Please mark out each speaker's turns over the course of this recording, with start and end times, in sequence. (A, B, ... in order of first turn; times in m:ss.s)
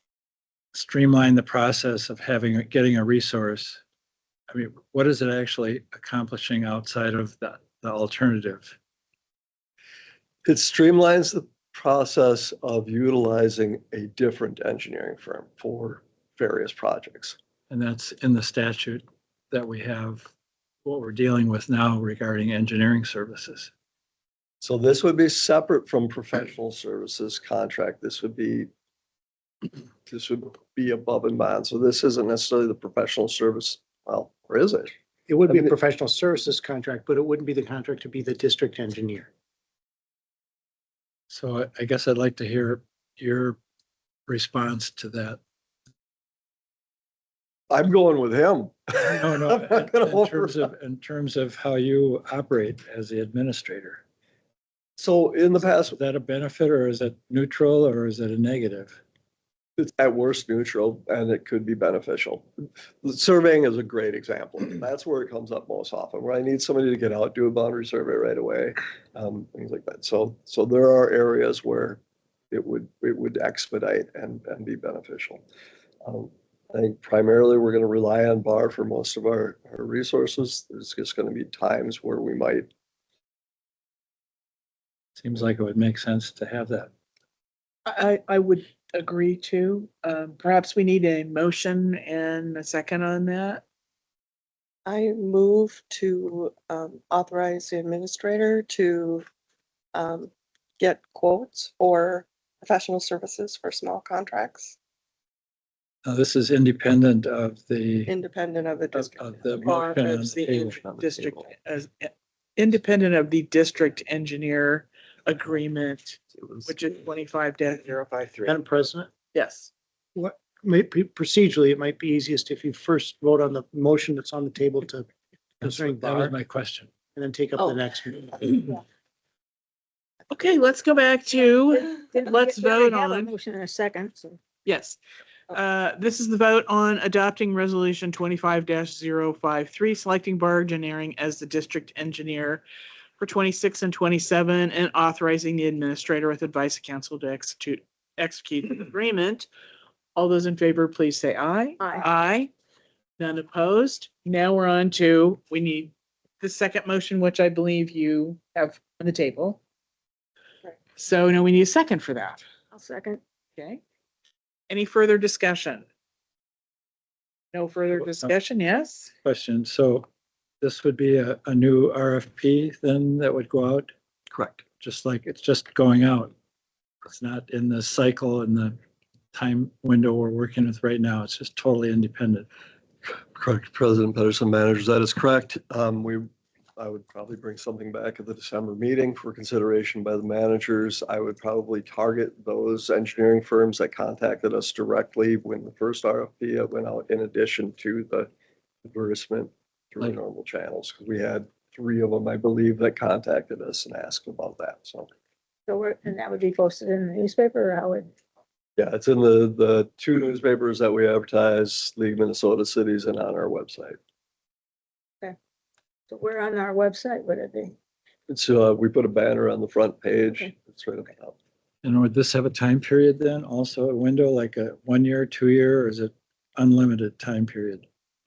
0:00.7-0:03.8 A
0:04.5-0:08.8 A
0:10.4-0:17.4 B
0:17.7-0:20.3 A
0:20.8-0:23.7 A
0:24.6-0:28.7 B
0:30.1-0:34.9 B
0:35.3-0:39.3 C
0:35.5-0:35.7 B
0:41.3-0:43.6 A
0:44.3-0:45.4 A
0:47.7-0:50.7 B
0:49.0-0:54.0 A
0:55.0-0:56.0 B
0:55.8-0:59.0 A
0:59.8-1:02.5 B
1:03.0-1:12.0 B
1:12.5-1:15.4 B
1:16.0-1:22.7 B
1:25.2-1:26.9 A
1:27.9-1:33.6 D
1:34.9-1:39.3 E
1:39.9-1:44.8 E
1:46.0-1:48.1 A
1:48.1-1:50.0 E
1:49.0-1:50.8 A
1:50.1-1:58.6 D
1:50.6-1:51.5 B
1:58.4-1:59.1 C
1:59.3-1:59.7 D
2:00.2-2:05.1 C
2:05.6-2:06.4 C
2:05.6-2:06.9 A
2:07.2-2:08.8 C
2:10.3-2:13.3 D
2:12.2-2:14.4 F
2:14.6-2:15.0 D
2:15.5-2:22.6 D
2:23.2-2:29.5 D
2:30.2-2:32.5 D
2:33.2-2:39.6 D
2:41.0-2:42.4 D
2:42.7-2:43.2 F
2:44.7-2:45.8 D
2:47.5-2:49.1 D
2:49.2-2:50.1 A
2:50.6-2:53.9 A
2:54.3-2:54.6 B
2:54.8-2:56.3 A
2:57.0-2:58.8 A
2:59.3-3:02.5 A
3:03.1-3:18.3 B
3:18.8-3:25.1 B
3:25.7-3:28.1 F
3:28.8-3:34.0 B
3:36.1-3:37.8 F
3:38.3-3:41.4 B
3:41.8-3:47.9 A